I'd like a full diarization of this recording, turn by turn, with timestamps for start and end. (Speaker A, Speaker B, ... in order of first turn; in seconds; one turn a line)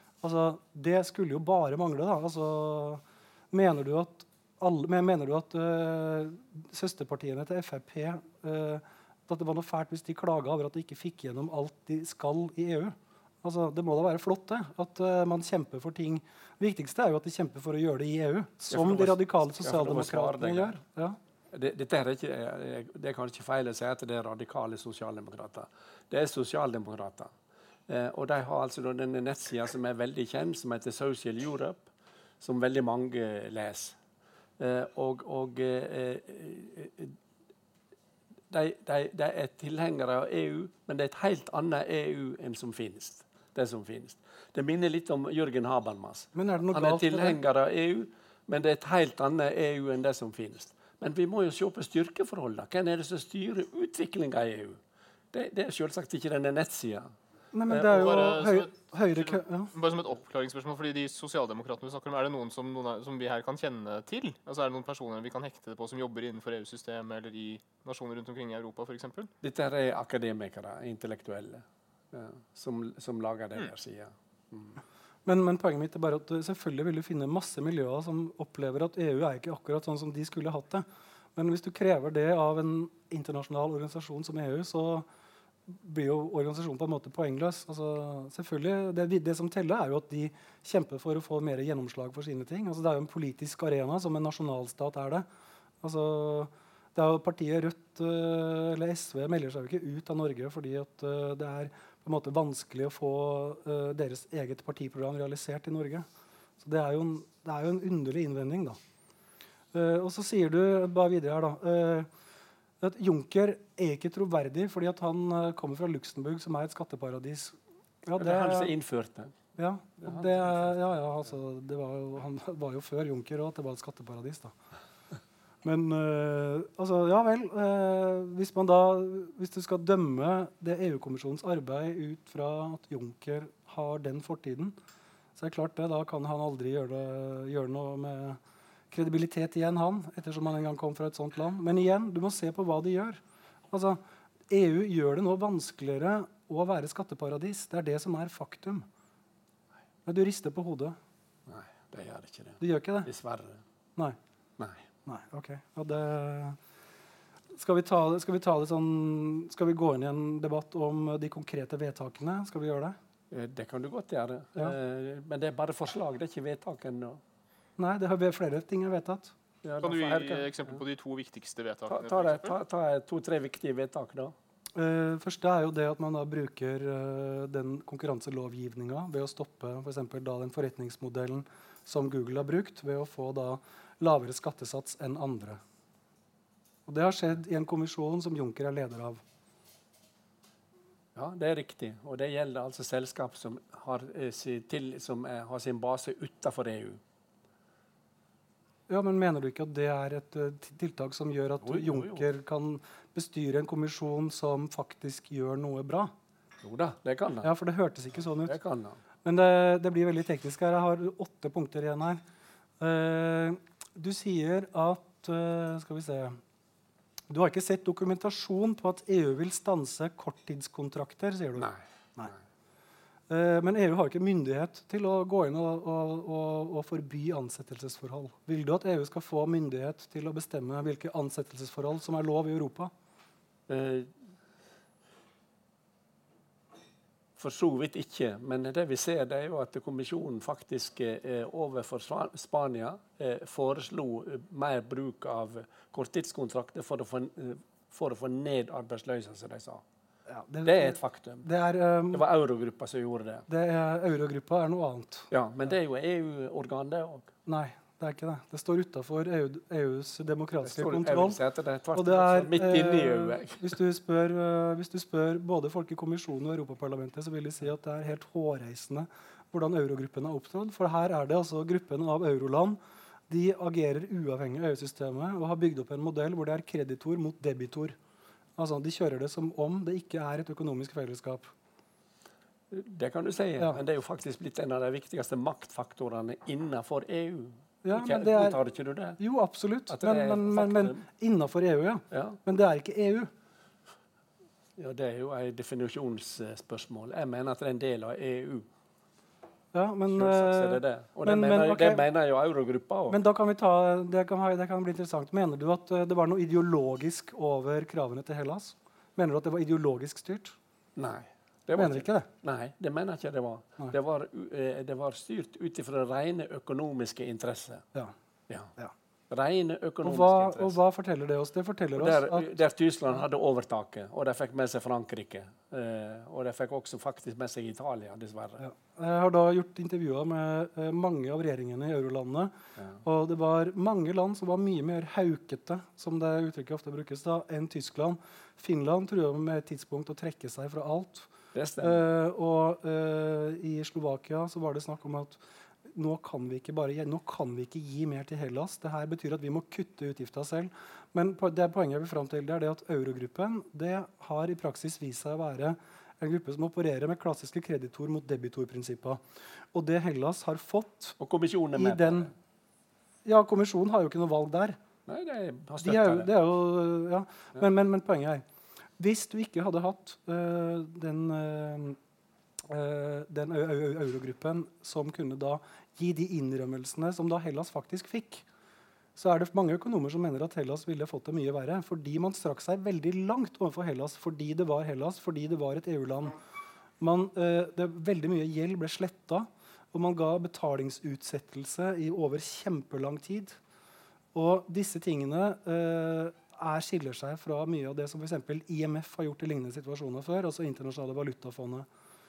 Speaker A: 0.2-21.2
Speaker B: 18.7-20.7
Speaker B: 21.5-27.3
Speaker B: 27.9-31.9
Speaker B: 32.4-34.0
Speaker B: 34.6-37.1
Speaker B: 38.5-54.8
Speaker A: 46.3-47.4
Speaker B: 55.3-57.1
Speaker A: 57.5-59.7
Speaker C: 57.7-69.3
Speaker B: 69.4-74.8
Speaker A: 75.2-85.0
Speaker A: 85.7-95.2
Speaker A: 95.8-106.1
Speaker A: 106.6-108.8
Speaker A: 109.7-112.1
Speaker A: 112.8-118.7
Speaker B: 118.2-119.3
Speaker A: 119.6-124.5
Speaker B: 120.0-120.7
Speaker A: 125.6-134.8
Speaker A: 135.3-138.4
Speaker A: 138.9-148.9
Speaker A: 150.1-150.9
Speaker B: 151.5-153.6
Speaker A: 152.6-153.1
Speaker B: 154.6-154.8
Speaker A: 155.1-156.6
Speaker A: 157.5-162.9
Speaker B: 163.3-167.2
Speaker A: 167.8-169.3
Speaker B: 169.6-170.5
Speaker C: 169.8-172.6
Speaker B: 171.9-174.3
Speaker A: 174.7-185.6
Speaker A: 186.9-189.2
Speaker B: 191.1-197.0
Speaker A: 198.9-206.1
Speaker B: 201.6-202.3
Speaker B: 206.6-207.5
Speaker A: 207.4-208.6
Speaker B: 208.4-209.0
Speaker A: 209.2-212.2
Speaker A: 212.8-216.4
Speaker A: 217.3-222.3
Speaker B: 221.6-222.3
Speaker A: 223.3-232.9
Speaker B: 233.7-234.1
Speaker B: 237.4-249.8
Speaker A: 250.3-252.2
Speaker B: 250.6-251.5
Speaker B: 252.1-253.5
Speaker A: 253.5-255.3
Speaker B: 255.3-257.3
Speaker A: 257.4-261.4
Speaker B: 260.6-263.8
Speaker A: 261.9-272.8
Speaker A: 273.3-278.0
Speaker A: 278.6-281.5
Speaker B: 282.7-289.2
Speaker A: 287.8-288.6
Speaker A: 289.2-293.3
Speaker B: 289.9-291.0
Speaker B: 292.1-292.4
Speaker B: 294.8-298.7
Speaker A: 299.7-302.0
Speaker B: 300.1-303.2
Speaker A: 303.1-310.6
Speaker B: 310.9-317.9
Speaker A: 311.7-312.3
Speaker B: 319.3-320.8
Speaker A: 320.0-322.5
Speaker B: 321.9-328.6
Speaker A: 328.6-341.3
Speaker B: 341.5-342.0
Speaker A: 341.8-359.2
Speaker A: 359.7-361.2
Speaker B: 361.2-362.3
Speaker A: 361.8-362.3
Speaker A: 363.2-364.8
Speaker B: 365.1-366.3
Speaker A: 365.8-368.4
Speaker A: 369.0-372.0
Speaker A: 372.7-378.4
Speaker A: 379.1-386.4
Speaker A: 387.0-393.6
Speaker A: 394.3-401.9